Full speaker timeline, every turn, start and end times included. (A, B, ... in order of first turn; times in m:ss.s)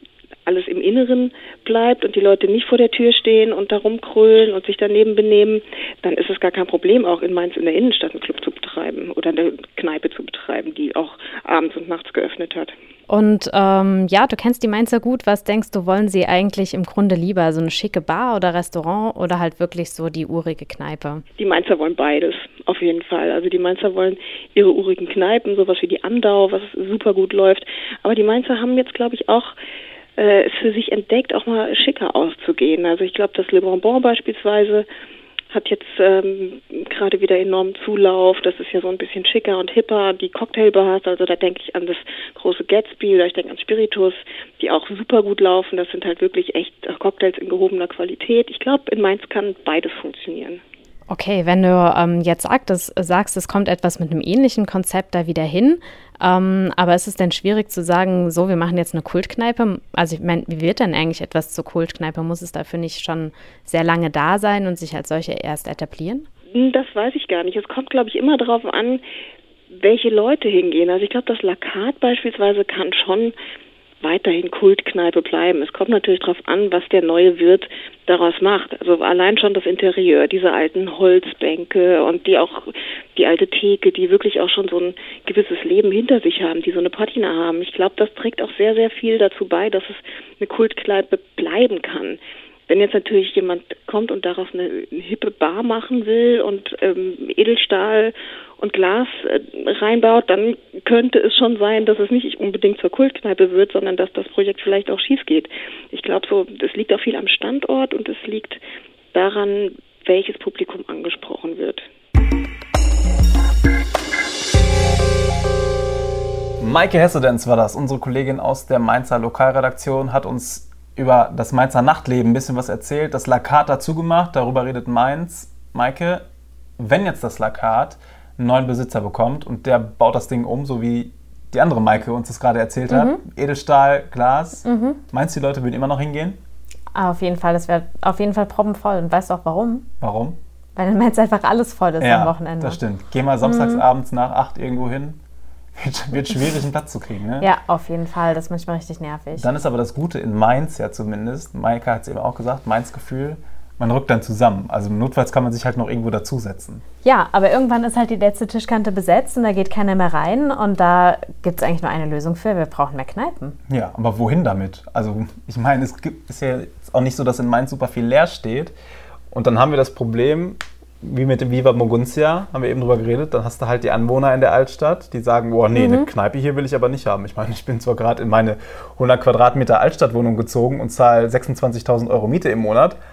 0:00.4-0:12.7 A
0:13.1-0:21.2 B
0:21.4-0:29.6 A
0:30.2-0:34.9 A
0:35.5-0:50.6 A
0:51.1-1:06.3 B
1:06.5-1:09.0 A
1:09.7-1:13.3 A
1:14.0-1:48.6 A
1:49.1-1:51.9 A
1:56.6-2:06.2 C
2:06.8-2:16.4 C
2:12.9-2:13.2 B
2:14.6-2:15.0 B
2:16.9-2:19.9 B
2:20.0-2:20.4 C
2:20.8-2:22.8 B
2:22.0-2:25.2 C
2:23.4-2:23.8 B
2:25.8-2:27.5 C
2:27.4-2:29.4 B
2:29.4-2:36.8 C
2:37.0-2:43.6 B
2:43.7-2:48.7 C
2:49.3-3:03.0 C
2:55.7-2:56.1 B